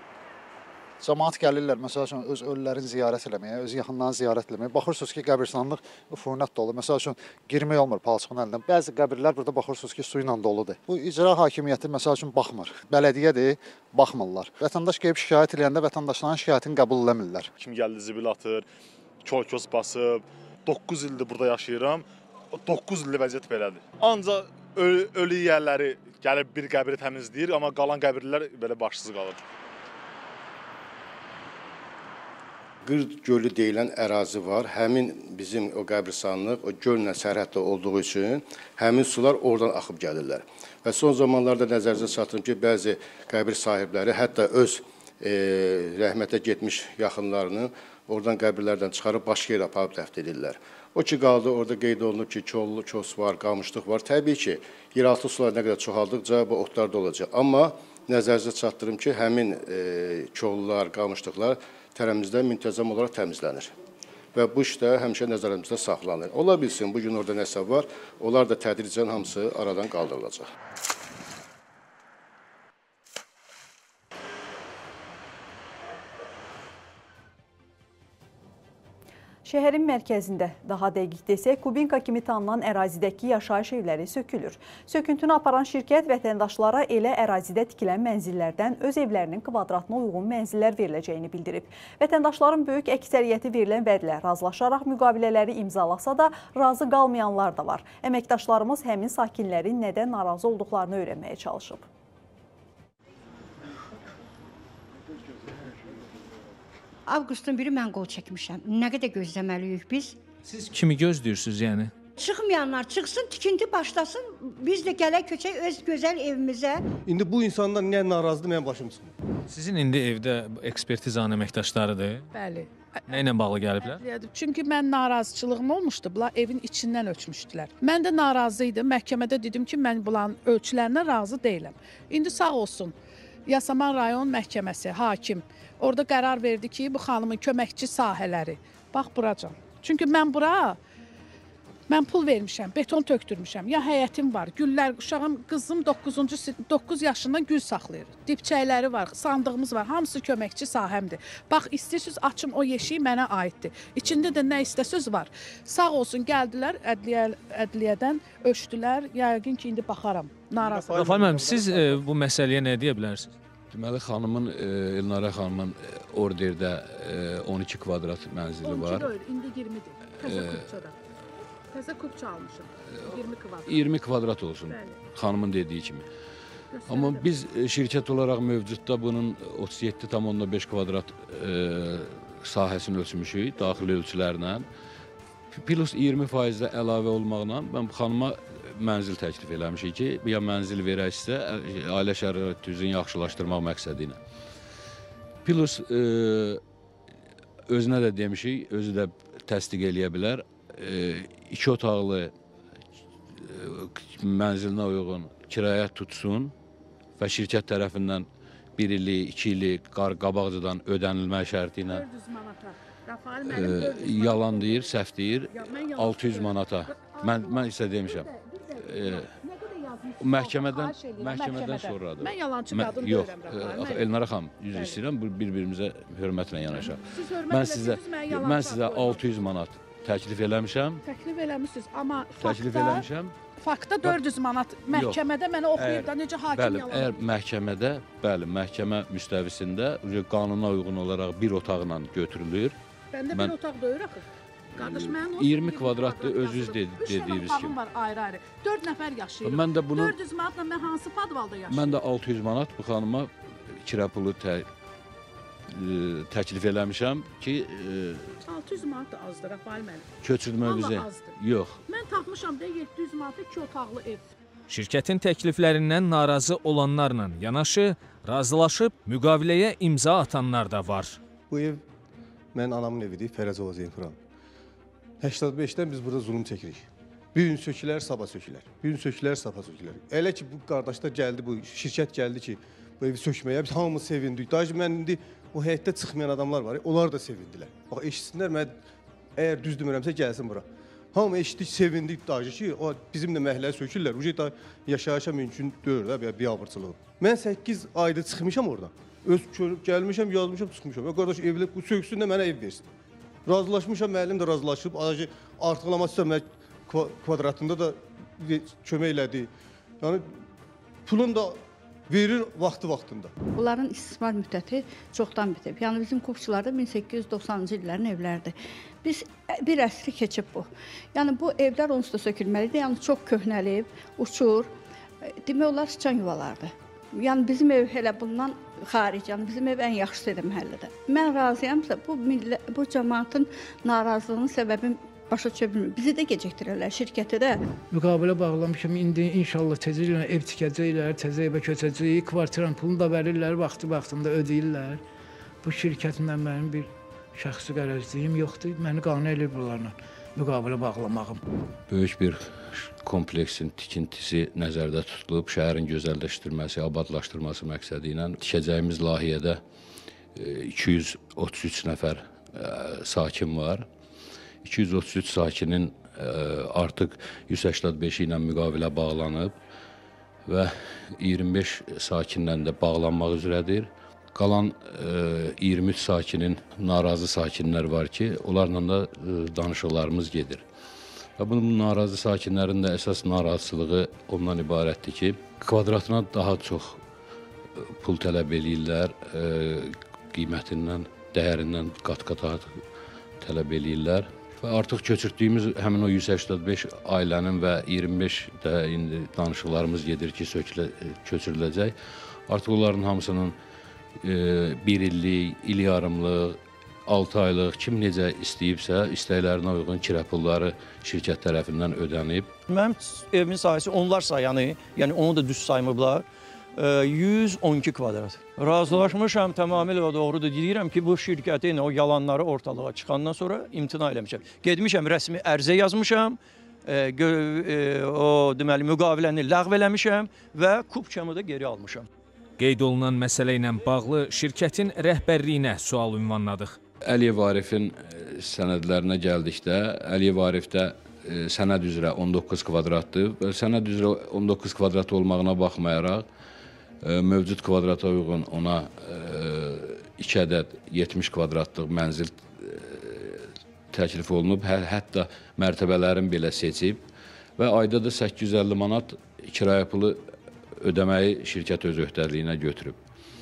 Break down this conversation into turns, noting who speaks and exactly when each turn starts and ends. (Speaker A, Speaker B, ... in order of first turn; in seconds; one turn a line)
Speaker A: 1.0-17.5
Speaker B: 17.6-18.7
Speaker B: 19.2-29.4
Speaker C: 32.9-63.7
Speaker C: 64.3-70.5
Speaker D: 79.5-101.9
Speaker E: 107.1-110.2
Speaker F: 110.5-111.9
Speaker E: 112.2-116.9
Speaker G: 117.1-119.1
Speaker F: 119.5-122.3
Speaker H: 122.3-132.9
Speaker F: 123.1-124.0
Speaker H: 133.5-140.8
Speaker H: 141.9-160.9
Speaker G: 160.6-162.0
Speaker F: 160.8-163.3
Speaker I: 163.7-169.1
Speaker H: 168.6-170.9
Speaker I: 170.2-170.7
Speaker H: 171.7-173.9
Speaker I: 172.9-176.1
Speaker H: 174.7-175.0
Speaker H: 176.7-177.3
Speaker I: 176.9-184.7
Speaker I: 185.5-194.2
Speaker I: 195.4-196.6
Speaker I: 197.7-202.3
Speaker I: 203.3-206.5
Speaker I: 207.2-212.1
Speaker H: 211.9-224.1
Speaker I: 213.4-219.3
Speaker I: 220.2-231.0
Speaker H: 224.7-225.0
Speaker H: 227.1-229.2
Speaker H: 231.0-237.2
Speaker I: 232.4-233.3
Speaker I: 234.9-235.2
Speaker I: 235.8-242.8
Speaker H: 243.1-244.2
Speaker I: 243.3-243.6
Speaker I: 244.8-247.8
Speaker H: 244.8-252.0
Speaker I: 249.4-250.2
Speaker I: 251.7-254.7
Speaker I: 255.7-258.4
Speaker H: 258.4-260.1
Speaker I: 260.2-261.8
Speaker H: 260.6-264.3
Speaker F: 264.7-271.2
Speaker G: 271.5-271.8
Speaker G: 272.5-274.2
Speaker G: 275.2-288.8
Speaker G: 289.4-302.9
Speaker G: 303.5-309.5
Speaker G: 310.0-310.3
Speaker G: 311.1-313.3
Speaker E: 313.6-324.7
Speaker E: 325.2-337.6
Speaker J: 337.9-345.0
Speaker J: 345.6-351.4
Speaker I: 351.9-359.6
Speaker I: 360.4-363.9
Speaker I: 364.6-369.6
Speaker I: 370.5-380.6
Speaker I: 381.4-387.0
Speaker I: 387.8-392.8
Speaker I: 393.4-402.0
Speaker I: 402.5-403.6
Speaker I: 404.2-412.5
Speaker K: 412.7-416.2
Speaker K: 416.8-432.1
Speaker F: 432.6-436.8
Speaker I: 437.0-446.3
Speaker I: 447.0-457.0
Speaker I: 457.6-460.2
Speaker I: 460.8-463.0